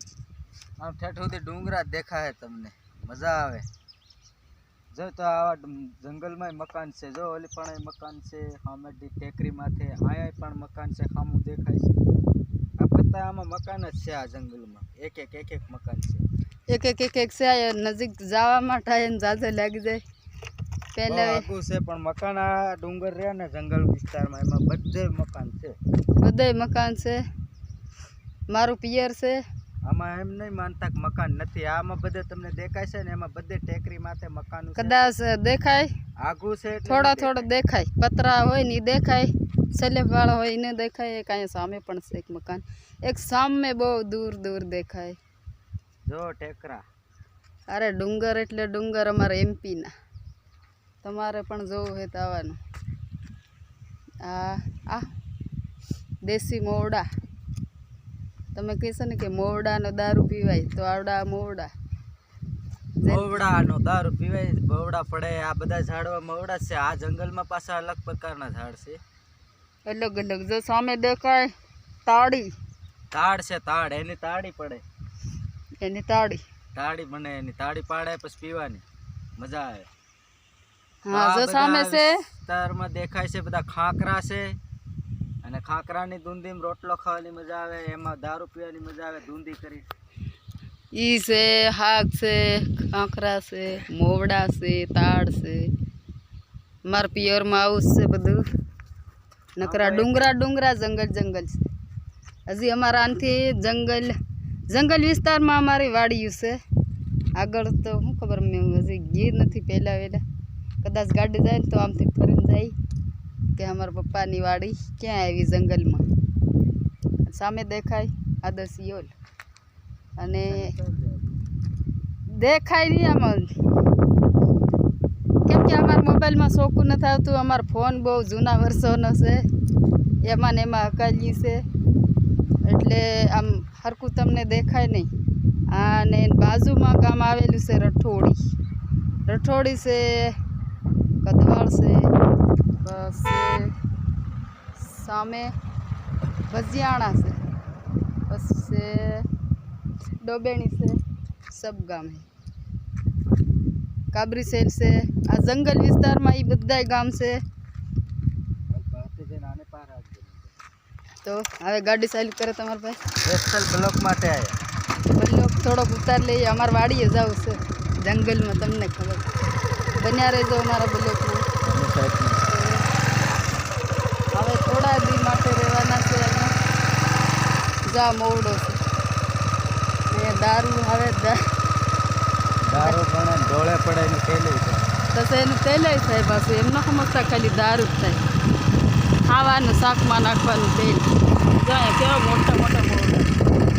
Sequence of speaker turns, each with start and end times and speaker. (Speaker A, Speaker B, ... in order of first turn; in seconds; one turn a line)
Speaker A: 0.8-3.7
Speaker A: 4.9-12.0
Speaker A: 12.8-16.2
Speaker B: 16.7-20.0
Speaker B: 20.9-21.4
Speaker A: 21.1-25.8
Speaker B: 26.2-27.2
Speaker B: 28.5-29.4
Speaker A: 29.9-35.1
Speaker B: 34.8-35.9
Speaker A: 36.2-37.5
Speaker B: 36.8-45.2
Speaker A: 46.0-46.8
Speaker B: 47.7-49.9
Speaker B: 51.0-52.6
Speaker B: 54.2-55.1
Speaker B: 56.2-57.0
Speaker B: 58.5-61.7
Speaker B: 63.0-63.4
Speaker A: 63.1-69.0
Speaker B: 69.9-71.5
Speaker B: 72.0-72.5
Speaker A: 73.1-74.8
Speaker B: 75.8-76.4
Speaker A: 76.7-78.8
Speaker A: 79.4-79.9
Speaker B: 81.0-82.1
Speaker A: 81.1-84.5
Speaker A: 85.4-89.9
Speaker B: 91.0-95.7
Speaker B: 96.9-98.4
Speaker B: 99.6-101.7
Speaker A: 99.6-100.3
Speaker B: 102.5-104.1
Speaker B: 104.7-106.5
Speaker B: 107.4-110.2
Speaker B: 110.8-112.7
Speaker B: 113.5-116.0
Speaker B: 117.2-119.1
Speaker B: 120.2-120.7
Speaker A: 120.5-121.4
Speaker B: 122.4-123.5
Speaker B: 125.5-129.4
Speaker B: 130.2-131.6
Speaker B: 132.7-135.1
Speaker B: 135.7-138.4
Speaker B: 139.3-140.3
Speaker B: 141.2-142.1
Speaker B: 142.8-143.7
Speaker B: 144.8-145.5
Speaker B: 146.5-147.4
Speaker B: 148.3-149.2
Speaker B: 150.2-151.0
Speaker B: 151.5-152.3
Speaker B: 154.1-157.4
Speaker A: 158.7-160.6
Speaker B: 161.2-163.0
Speaker A: 163.2-164.5
Speaker B: 165.2-169.3
Speaker B: 170.0-171.4
Speaker A: 171.6-172.5
Speaker B: 172.5-172.8
Speaker B: 174.3-176.5
Speaker B: 177.9-178.8
Speaker B: 180.1-181.4
Speaker A: 182.6-184.9
Speaker B: 185.1-188.2
Speaker B: 189.3-191.1
Speaker B: 191.6-193.3